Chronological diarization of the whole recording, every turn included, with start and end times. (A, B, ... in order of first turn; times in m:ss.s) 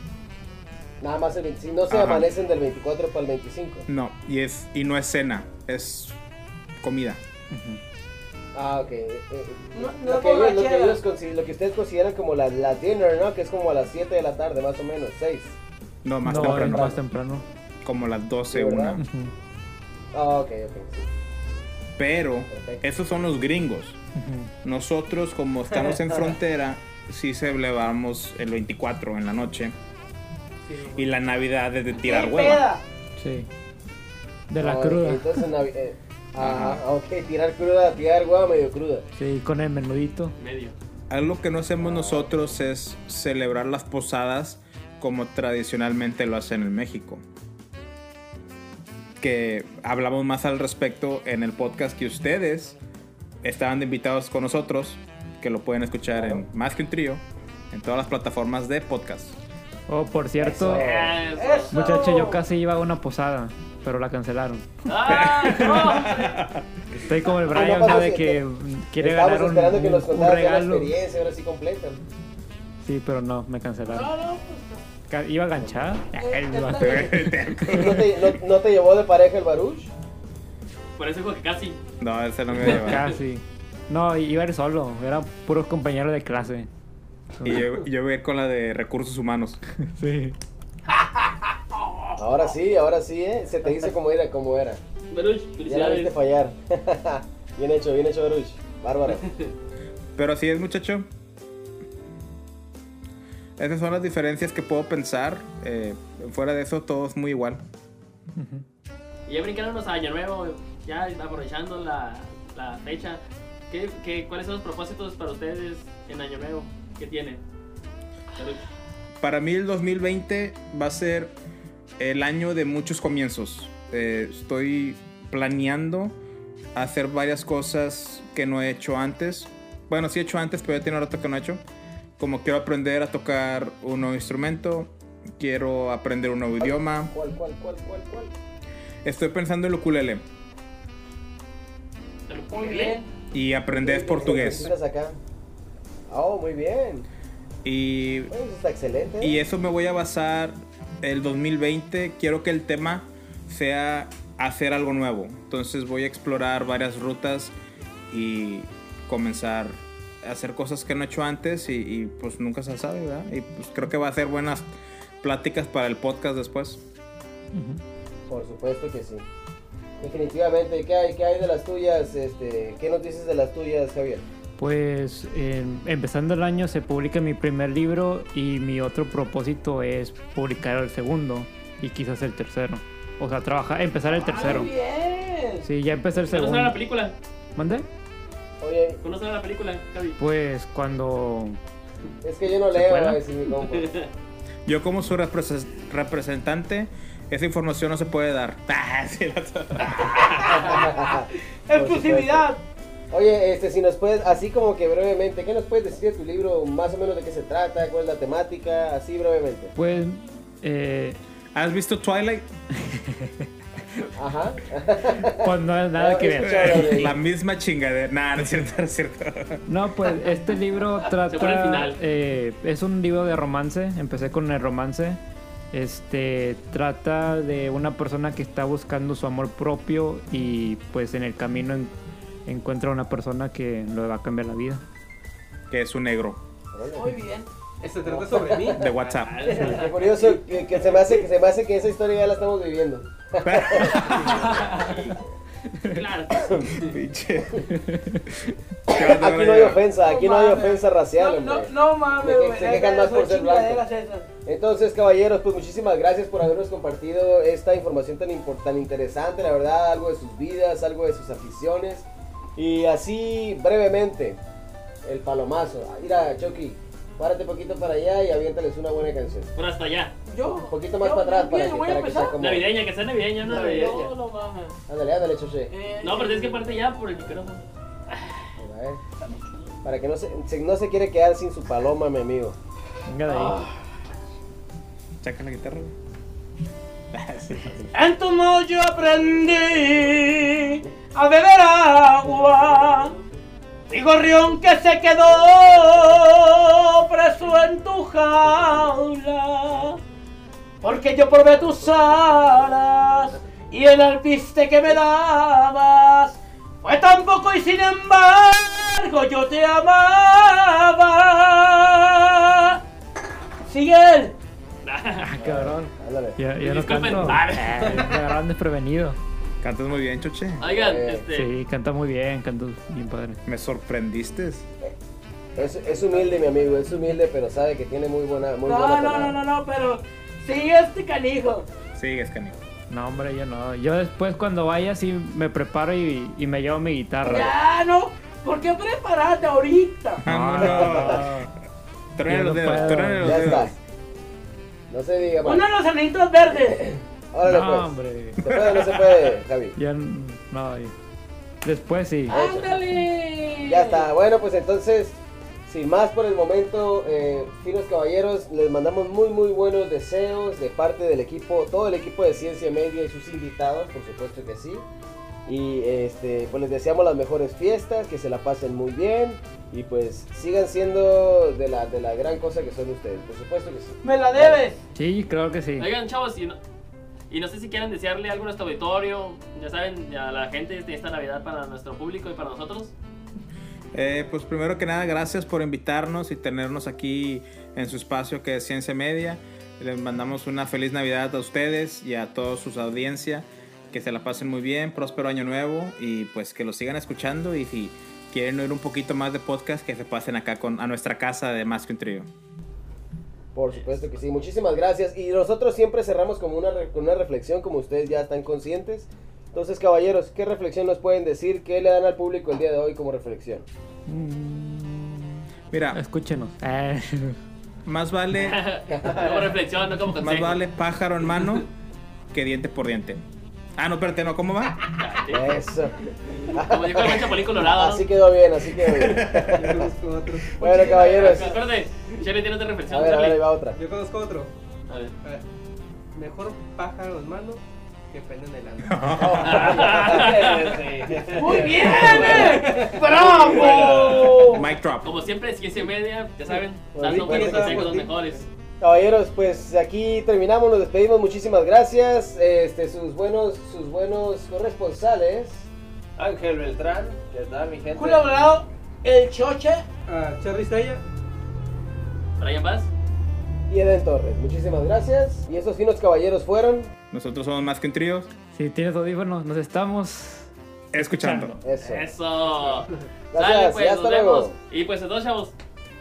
0:01.0-0:03.9 A
0:01.9-0:02.3 B
0:03.9-0:06.2 B
0:06.8-0:07.2 B
0:07.5-0:07.8 C
0:08.6-0:15.6 A
0:09.7-0:11.0 D
0:16.0-0:17.0 B
0:16.2-0:17.4 C
0:16.3-0:17.0 A
0:17.8-0:19.0 B
0:18.5-0:19.0 A
0:19.0-0:19.3 C
0:20.1-0:21.1 A
0:22.0-0:24.0 B
0:22.5-0:22.8 A
0:24.2-0:24.5 C
0:24.6-0:29.8 B
0:30.6-0:31.1 E
0:31.0-0:32.7 B
0:32.0-0:32.8 D
0:33.2-0:33.5 C
0:34.5-0:35.5 C
0:34.6-0:39.0 A
0:36.4-0:36.8 B
0:39.2-0:40.4 C
0:40.4-0:40.8 F
0:41.1-0:47.2 B
0:41.8-0:42.3 A
0:49.2-0:52.8 B
0:53.4-0:59.4 B
0:56.1-0:56.4 A
0:59.9-1:00.9 C
1:00.4-1:01.2 A
1:00.6-1:01.8 F
1:01.3-1:02.4 D
1:01.7-1:04.8 C
1:04.9-1:06.4 F
1:05.1-1:06.7 B
1:07.0-1:10.9 C
1:07.5-1:08.4 A
1:09.0-1:12.0 A
1:12.8-1:14.1 C
1:13.9-1:14.8 D
1:15.1-1:17.3 C
1:15.6-1:16.0 A
1:16.1-1:17.3 D
1:16.8-1:18.2 B
1:17.7-1:19.9 A
1:21.0-1:21.8 F
1:22.0-1:23.1 B
1:22.6-1:26.7 C
1:27.4-1:27.7 C
1:27.4-1:29.6 B
1:29.8-1:30.4 C
1:32.2-1:34.8 A
1:35.1-1:36.1 F
1:35.6-1:39.3 A
1:39.1-1:39.5 F
1:40.2-1:41.1 B
1:43.6-1:47.6 B
1:48.4-1:48.6 C
1:49.3-1:57.4 F
1:58.4-1:58.6 F
1:59.2-2:01.4 B
2:02.0-2:06.2 B
2:06.8-2:11.6 B
2:12.2-2:17.1 B
2:16.6-2:18.3 A
2:19.0-2:20.2 B
2:22.3-2:23.0 F
2:22.5-2:23.0 D
2:23.3-2:24.7 B
2:23.8-2:25.2 A
2:26.1-2:27.1 A
2:27.6-2:28.3 B
2:28.3-2:29.4 A
2:29.2-2:37.6 B
2:38.1-2:44.7 B
2:45.2-2:46.8 B
2:47.5-2:47.8 C
2:48.3-2:49.2 A
2:50.0-2:54.2 A
2:54.6-3:04.7 C
3:04.2-3:05.7 D
3:04.4-3:04.6 F
3:05.6-3:06.8 C
3:06.3-3:07.2 F
3:07.6-3:07.9 C
3:08.6-3:09.0 A
3:09.0-3:10.2 F
3:10.2-3:11.6 C
3:12.2-3:14.0 A
3:12.7-3:13.2 C
3:13.7-3:14.1 F
3:14.7-3:20.5 B
3:20.0-3:21.0 D
3:20.5-3:22.5 A
3:21.7-3:22.6 D
3:23.1-3:29.7 A
3:29.8-3:31.2 C
3:31.5-3:32.5 B
3:32.7-3:33.5 C
3:34.2-3:37.2 A
3:35.3-3:37.1 C
3:36.4-3:39.6 B
3:39.7-3:45.2 C
3:41.3-3:42.0 F
3:45.7-3:51.9 C
3:52.5-3:54.8 C
3:55.7-3:56.4 B
3:56.7-3:57.1 A
3:57.0-3:57.5 D
3:57.8-3:58.8 E
3:58.0-3:58.9 A
3:58.7-3:59.6 B
3:59.0-4:00.2 F
3:59.5-4:04.1 A
4:03.4-4:05.0 B
4:04.6-4:05.2 F
4:05.9-4:07.0 F
4:06.6-4:07.8 B
4:07.7-4:08.2 C
4:08.3-4:09.8 B
4:08.9-4:13.8 A
4:10.0-4:14.3 D
4:14.4-4:24.4 A
4:25.0-4:29.5 A
4:29.6-4:30.1 F
4:30.3-4:32.4 D
4:30.7-4:32.7 A
4:32.4-4:34.1 F
4:33.4-4:34.8 D
4:34.9-4:35.7 A
4:35.7-4:36.8 D
4:36.0-4:38.3 F
4:38.6-4:39.0 A
4:39.8-4:42.6 A
4:43.1-4:43.6 C
4:43.3-4:43.7 D
4:45.2-4:45.9 B
4:47.1-4:47.9 B
4:47.9-4:53.2 D
4:53.9-5:00.0 D
5:00.8-5:12.8 D
5:13.6-5:14.4 D
5:14.8-5:15.2 F
5:15.2-5:19.2 C
5:15.4-5:16.4 A
5:16.6-5:18.1 F
5:19.6-5:20.6 B
5:20.6-5:21.5 F
5:20.6-5:21.2 A
5:21.3-5:23.4 C
5:23.5-5:24.7 B
5:25.6-5:29.5 A
5:28.6-5:31.7 D
5:32.0-5:32.6 B
5:32.9-5:37.6 C
5:37.2-5:40.2 D
5:40.2-5:41.3 B
5:40.2-5:41.5 C
5:40.6-5:41.2 A
5:42.2-5:43.8 B
5:42.3-5:43.7 C
5:42.7-5:43.7 A
5:44.9-5:45.7 A
5:45.4-5:46.8 D
5:46.5-5:49.7 A
5:47.4-5:48.5 C
5:48.5-5:49.2 B
5:49.8-5:50.9 C
5:51.6-5:52.4 C
5:52.3-5:54.1 D
5:52.3-5:52.8 A
5:53.6-6:04.8 A
6:05.5-6:14.6 A
6:14.0-6:14.8 D
6:15.0-6:15.9 C
6:15.8-6:16.6 F
6:17.3-6:22.9 F
6:23.9-6:42.3 B
6:43.6-6:53.7 A
6:54.1-6:57.4 C
6:55.7-6:56.0 B
6:57.8-6:58.6 B
6:58.3-7:00.6 F
6:59.0-6:59.5 G
7:00.2-7:01.7 B
7:02.3-7:03.2 B
7:03.8-7:04.8 B
7:05.0-7:05.6 F
7:05.3-7:06.0 A
7:06.3-7:08.1 F
7:06.5-7:09.9 A
7:08.8-7:09.5 B
7:09.5-7:11.3 E
7:10.6-7:11.6 A
7:10.6-7:11.6 D
7:10.8-7:13.4 F
7:12.9-7:13.8 A
7:13.8-7:14.5 E
7:14.9-7:15.1 F
7:16.1-7:19.4 E
7:18.8-7:19.9 B
7:19.2-7:20.3 A
7:19.4-7:20.8 F
7:19.8-7:24.5 G
7:21.3-7:24.7 D
7:22.0-7:22.6 A
7:24.4-7:25.1 B
7:25.0-7:28.5 F
7:27.0-7:27.9 A
7:27.0-7:28.4 E
7:28.8-7:35.7 A
7:36.2-7:38.4 G
7:38.0-7:39.9 D
7:40.1-7:41.0 E
7:42.4-7:42.9 F
7:43.7-7:46.9 A
7:47.1-7:48.3 B
7:48.5-7:51.6 C
7:50.9-7:51.6 B
7:51.6-7:52.1 A
7:51.8-7:55.6 F
7:53.3-7:54.5 A